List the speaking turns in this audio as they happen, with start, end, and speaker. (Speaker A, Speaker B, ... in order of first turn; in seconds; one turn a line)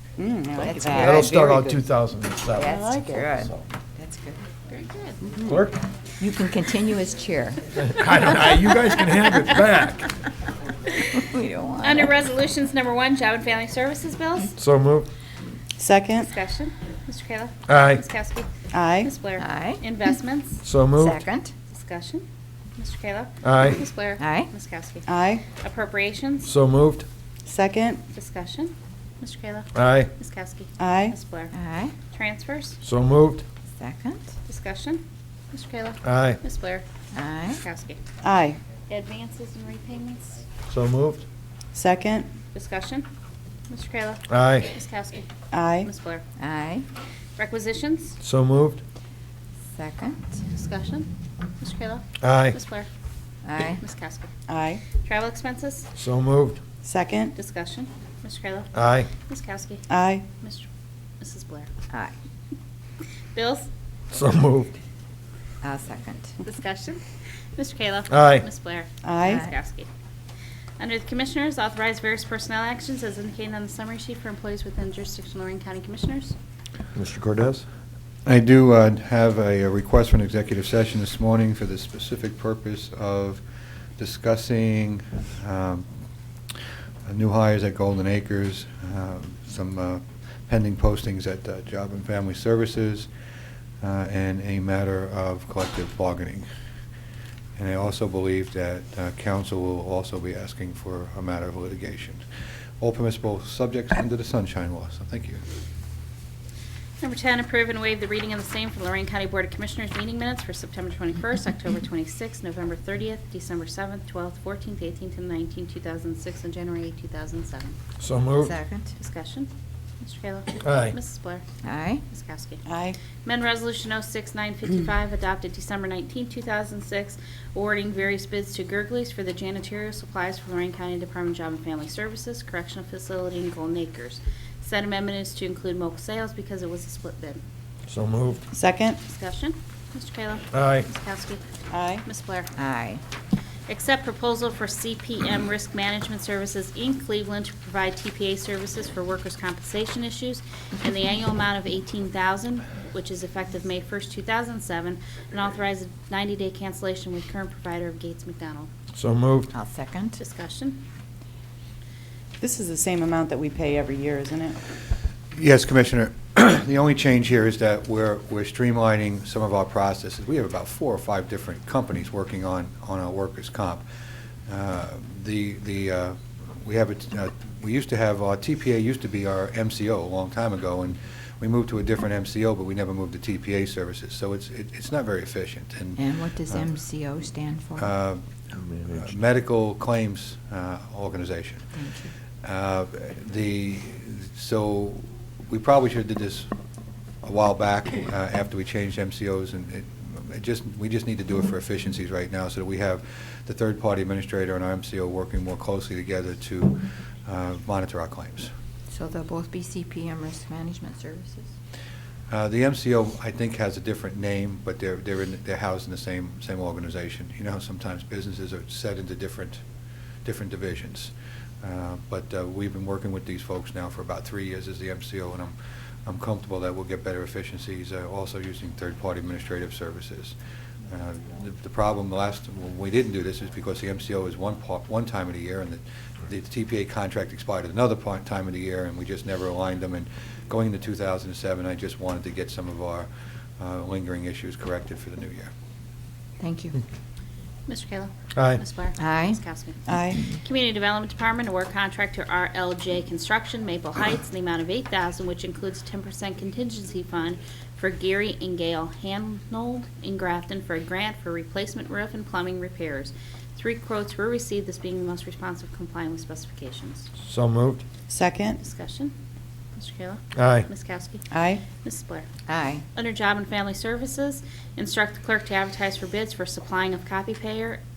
Speaker A: 0.2-1.8
Speaker B: 0.6-1.2
Speaker C: 0.9-3.6
Speaker B: 2.5-4.4
Speaker A: 2.7-3.0
Speaker D: 4.7-5.3
Speaker B: 5.3-5.6
Speaker C: 5.5-5.8
Speaker B: 6.2-7.6
Speaker C: 7.8-10.1
Speaker B: 11.0-12.1
Speaker D: 11.8-14.6
Speaker C: 14.6-15.1
Speaker A: 15.8-16.3
Speaker D: 16.2-18.5
Speaker C: 17.7-18.0
Speaker A: 18.7-19.1
Speaker D: 19.0-20.6
Speaker B: 19.4-19.8
Speaker C: 20.6-21.2
Speaker B: 21.0-21.5
Speaker D: 21.7-22.2
Speaker D: 22.8-26.5
Speaker C: 23.4-23.8
Speaker B: 24.2-24.5
Speaker A: 25.1-25.4
Speaker C: 26.4-27.1
Speaker A: 27.5-28.0
Speaker D: 28.1-31.5
Speaker C: 29.8-30.1
Speaker A: 30.8-31.1
Speaker B: 31.5-31.9
Speaker D: 32.1-32.8
Speaker C: 32.8-33.5
Speaker B: 33.8-34.2
Speaker D: 34.5-36.9
Speaker C: 36.0-36.4
Speaker B: 37.1-37.6
Speaker D: 37.5-38.0
Speaker A: 38.2-38.6
Speaker D: 38.9-40.4
Speaker C: 40.7-41.2
Speaker A: 41.7-42.3
Speaker D: 42.5-43.1
Speaker D: 43.7-45.3
Speaker C: 44.3-44.7
Speaker A: 45.5-45.9
Speaker D: 45.8-46.2
Speaker B: 46.4-46.9
Speaker D: 47.4-48.2
Speaker C: 48.2-48.8
Speaker B: 49.8-50.2
Speaker D: 50.5-51.1
Speaker D: 51.6-52.9
Speaker C: 52.2-52.6
Speaker B: 53.4-53.8
Speaker D: 53.8-54.3
Speaker A: 54.5-54.8
Speaker D: 55.0-55.9
Speaker C: 56.0-56.6
Speaker A: 56.8-57.3
Speaker D: 57.4-59.8
Speaker C: 58.7-59.1
Speaker A: 59.9-60.2
Speaker D: 60.4-60.7
Speaker D: 61.2-61.7
Speaker D: 63.3-63.7
Speaker C: 64.1-64.7
Speaker B: 65.6-66.3
Speaker D: 66.4-67.0
Speaker D: 67.6-69.9
Speaker C: 68.1-68.5
Speaker A: 69.0-69.4
Speaker B: 69.2-69.5
Speaker D: 70.8-76.3
Speaker C: 77.0-77.7
Speaker E: 78.3-83.4
Speaker E: 84.0-85.9
Speaker E: 87.1-93.1
Speaker E: 93.8-96.5
Speaker E: 97.6-102.2
Speaker E: 102.8-105.4
Speaker D: 107.0-117.8
Speaker C: 118.0-118.5
Speaker B: 118.4-118.9
Speaker D: 119.0-121.5
Speaker C: 120.6-121.0
Speaker B: 121.6-122.0
Speaker D: 122.1-122.6
Speaker A: 122.7-123.0
Speaker D: 123.2-137.4
Speaker C: 137.9-138.4
Speaker A: 138.5-139.0
Speaker D: 139.1-141.4
Speaker C: 140.5-140.9
Speaker A: 141.7-142.0
Speaker D: 142.0-142.5
Speaker B: 142.6-143.0
Speaker D: 143.7-158.7
Speaker C: 158.9-159.5
Speaker B: 159.5-160.2
Speaker D: 160.2-160.8
Speaker A: 162.4-164.6
Speaker E: 165.3-173.8
Speaker E: 174.5-186.7
Speaker B: 186.0-187.9
Speaker E: 187.8-188.3
Speaker C: 188.6-189.1
Speaker E: 188.9-191.7
Speaker B: 191.7-192.1
Speaker E: 192.4-196.5
Speaker E: 197.2-208.5
Speaker B: 208.9-211.5
Speaker E: 212.3-219.6
Speaker E: 220.2-230.3
Speaker E: 230.9-243.1
Speaker E: 243.6-245.5
Speaker B: 246.4-246.8
Speaker D: 247.7-267.1
Speaker C: 248.3-248.6
Speaker B: 248.9-249.4
Speaker A: 249.9-250.2
Speaker C: 267.2-267.8
Speaker A: 268.1-268.6
Speaker D: 268.6-269.1
Speaker D: 269.8-271.2
Speaker C: 270.4-270.7
Speaker A: 271.3-271.6
Speaker D: 271.8-272.3
Speaker B: 272.5-272.8
Speaker D: 272.9-277.8